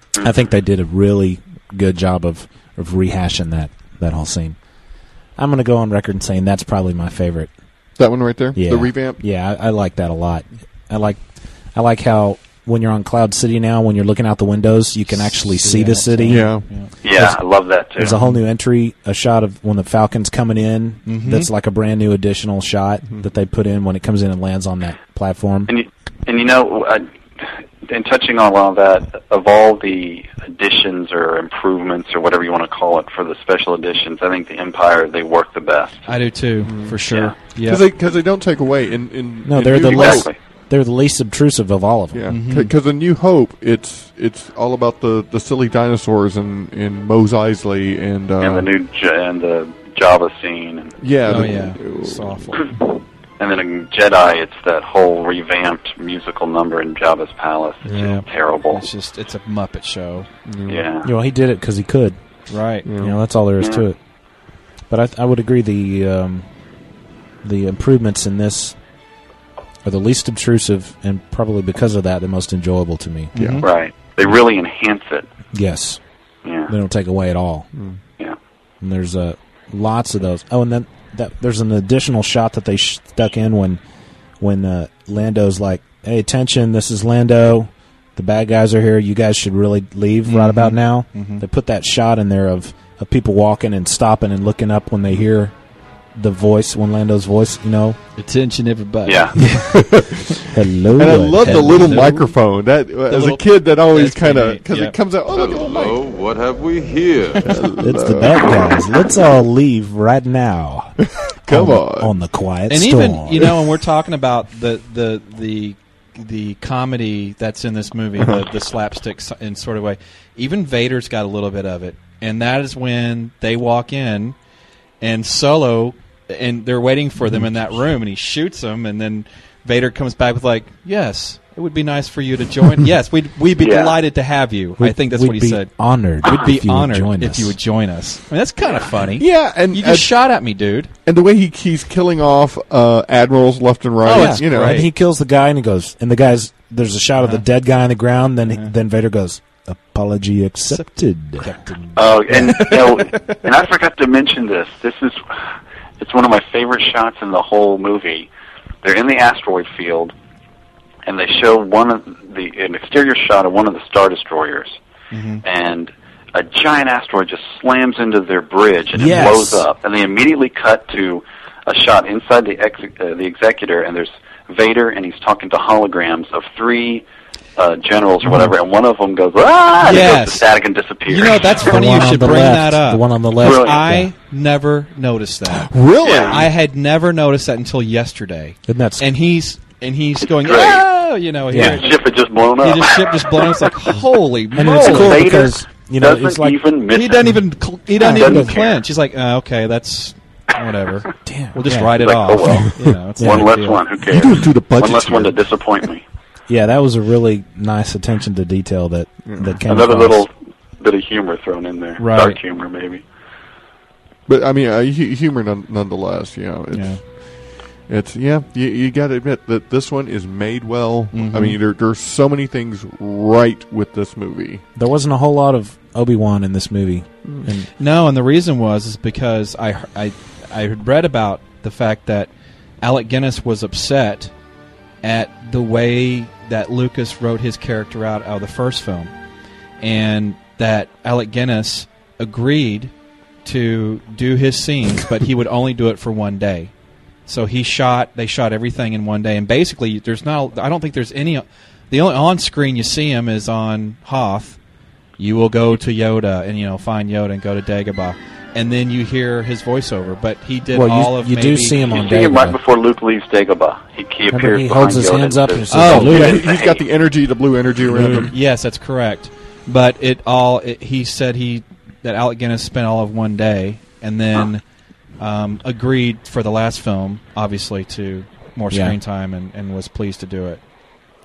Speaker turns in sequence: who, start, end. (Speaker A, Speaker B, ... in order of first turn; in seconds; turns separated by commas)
Speaker A: 0.2-4.6, Speaker A: 5.4-7.5, Speaker B: 8.0-9.2, Speaker A: 8.6-11.2, Speaker A: 11.8-16.5, Speaker C: 15.1-16.9, Speaker B: 16.3-16.7, Speaker D: 17.0-18.2, Speaker A: 17.1-17.4, Speaker A: 18.0-25.7, Speaker C: 18.2-18.4, Speaker C: 21.1-21.5, Speaker D: 25.7-36.1, Speaker C: 36.1-37.9, Speaker B: 36.6-37.0, Speaker B: 37.6-40.3, Speaker A: 39.4-42.3, Speaker D: 39.9-40.4, Speaker B: 42.1-48.7, Speaker C: 42.3-42.7, Speaker D: 48.4-51.0, Speaker B: 51.0-52.5, Speaker C: 51.3-52.8, Speaker D: 53.4-58.8, Speaker C: 57.9-60.3, Speaker B: 60.5-60.9, Speaker D: 60.7-61.1, Speaker A: 61.0-62.2, Speaker C: 62.5-62.9, Speaker B: 62.9-63.2, Speaker A: 62.9-64.0, Speaker D: 63.6-63.9, Speaker A: 64.9-66.5, Speaker A: 67.4-68.8, Speaker A: 69.8-73.3, Speaker C: 73.3-73.7, Speaker B: 73.3-73.7, Speaker D: 73.6-75.3, Speaker A: 75.5-76.0, Speaker D: 76.5-76.7, Speaker A: 76.7-77.7, Speaker B: 77.7-78.0, Speaker A: 78.8-83.8, Speaker A: 84.4-95.5, Speaker C: 90.2-91.4, Speaker A: 96.2-98.0, Speaker C: 98.2-99.9, Speaker D: 99.1-99.3, Speaker A: 99.4-99.7, Speaker B: 99.5-100.4, Speaker A: 100.5-102.2, Speaker B: 101.0-106.0, Speaker C: 101.3-102.3, Speaker C: 103.1-105.0, Speaker E: 105.3-107.4, Speaker B: 107.4-108.8, Speaker A: 107.8-113.5, Speaker B: 111.5-112.1, Speaker C: 112.7-124.4, Speaker B: 118.2-118.5, Speaker C: 125.0-135.7, Speaker D: 133.6-134.0, Speaker A: 134.8-137.6, Speaker C: 136.2-140.9, Speaker D: 138.6-138.9, Speaker B: 139.2-140.1, Speaker B: 141.1-144.9, Speaker C: 144.0-144.9, Speaker A: 144.1-151.6, Speaker C: 151.4-153.4, Speaker D: 151.9-155.5, Speaker A: 152.3-152.8, Speaker D: 156.0-158.3, Speaker D: 158.8-160.1, Speaker D: 161.1-164.8, Speaker C: 165.1-165.4, Speaker D: 165.4-177.1, Speaker A: 168.9-169.7, Speaker D: 177.6-181.8, Speaker C: 179.8-180.5, Speaker C: 181.1-192.0, Speaker A: 181.6-184.1, Speaker D: 183.4-183.8, Speaker B: 185.6-186.5, Speaker D: 186.0-186.4, Speaker A: 188.7-189.1, Speaker D: 190.2-190.9, Speaker A: 191.5-191.8, Speaker D: 191.6-193.2, Speaker C: 192.6-195.2, Speaker A: 194.6-196.6, Speaker D: 194.8-197.4, Speaker C: 196.9-203.8, Speaker D: 198.0-198.8, Speaker A: 198.0-198.6, Speaker A: 201.2-201.9, Speaker D: 201.9-206.0, Speaker A: 203.2-203.6, Speaker B: 204.1-205.4, Speaker A: 206.5-210.2, Speaker B: 209.3-209.6, Speaker D: 209.7-213.0, Speaker C: 212.0-212.4, Speaker B: 214.3-224.6, Speaker C: 216.7-217.0, Speaker C: 221.1-221.6, Speaker A: 224.8-227.7, Speaker C: 227.8-232.3, Speaker C: 232.8-234.3, Speaker C: 235.0-239.1, Speaker C: 239.8-242.9, Speaker C: 243.4-246.7, Speaker C: 247.3-254.6, Speaker C: 255.2-262.1, Speaker A: 260.7-262.6, Speaker D: 261.9-266.9, Speaker A: 264.3-266.4, Speaker C: 265.7-266.2, Speaker B: 266.0-268.3, Speaker A: 267.9-268.3, Speaker C: 268.0-274.6, Speaker C: 275.2-280.6, Speaker A: 278.7-279.0